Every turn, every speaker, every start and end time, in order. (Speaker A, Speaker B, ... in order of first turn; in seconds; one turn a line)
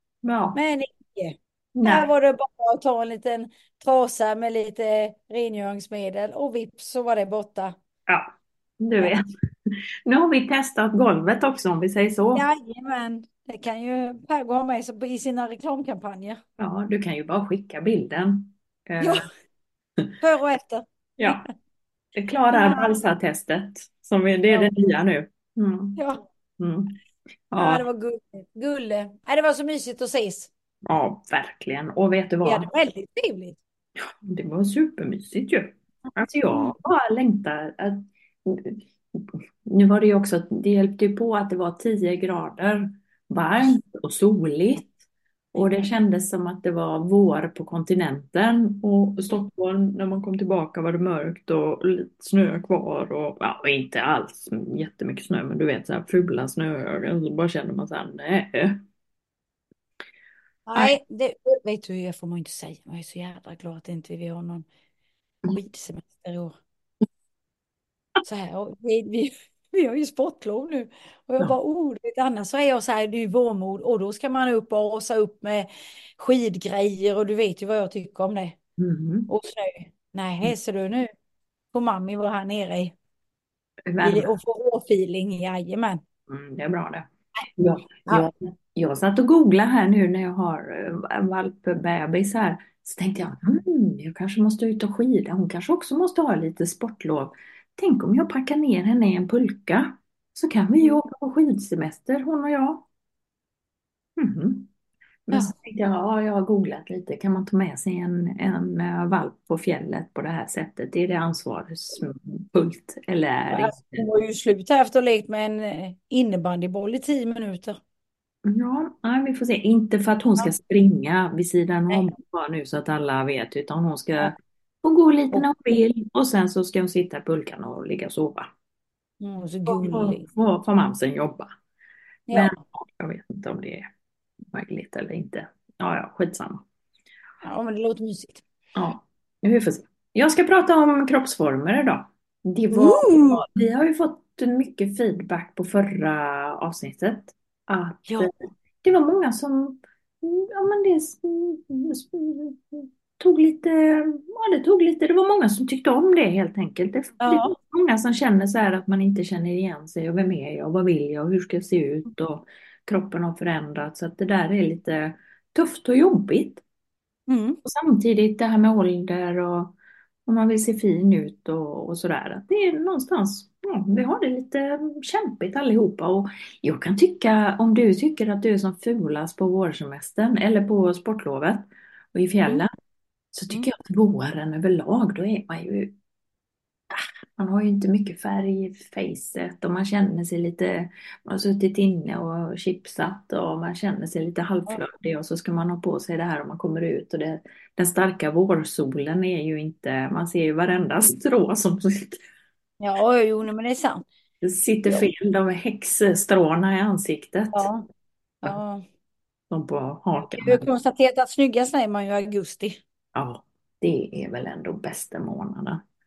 Speaker A: 0.2-0.6
Speaker B: 0.6-7.8
Speaker A: 1.8-2.1
Speaker A: 8.1-12.5
Speaker B: 12.3-16.4
Speaker A: 16.6-19.3
Speaker B: 19.0-19.3
Speaker B: 20.2-21.5
Speaker A: 21.2-21.4
Speaker A: 22.1-26.0
Speaker B: 22.5-22.9
Speaker B: 26.0-26.2
Speaker A: 26.6-27.0
Speaker A: 27.5-27.9
Speaker B: 27.6-30.5
Speaker A: 30.9-32.7
Speaker B: 32.4-33.6
Speaker A: 34.0-44.9
Speaker A: 45.5-58.8
Speaker B: 60.7-64.7
Speaker B: 65.5-66.5
Speaker B: 68.2-75.7
Speaker B: 76.2-78.6
Speaker A: 78.8-79.3
Speaker B: 79.3-81.1
Speaker B: 81.7-82.9
Speaker A: 83.9-84.3
Speaker B: 84.0-86.0
Speaker A: 86.3-102.9
Speaker A: 104.2-104.7
Speaker A: 105.3-114.1
Speaker B: 113.5-117.8
Speaker A: 118.5-128.5
Speaker B: 121.9-122.2
Speaker B: 129.2-130.3
Speaker A: 129.7-131.5
Speaker B: 132.3-132.6
Speaker A: 132.3-133.9
Speaker A: 134.5-136.6
Speaker B: 137.4-138.4
Speaker A: 138.8-166.6
Speaker B: 142.7-143.5
Speaker B: 148.1-148.3
Speaker B: 157.2-157.5
Speaker B: 167.3-167.6
Speaker A: 167.6-182.7
Speaker A: 183.3-185.9
Speaker A: 186.9-202.2
Speaker B: 202.8-204.0
Speaker A: 204.4-207.7
Speaker B: 207.5-207.9
Speaker B: 208.4-208.8
Speaker A: 209.5-210.7
Speaker B: 210.3-212.8
Speaker A: 213.1-215.8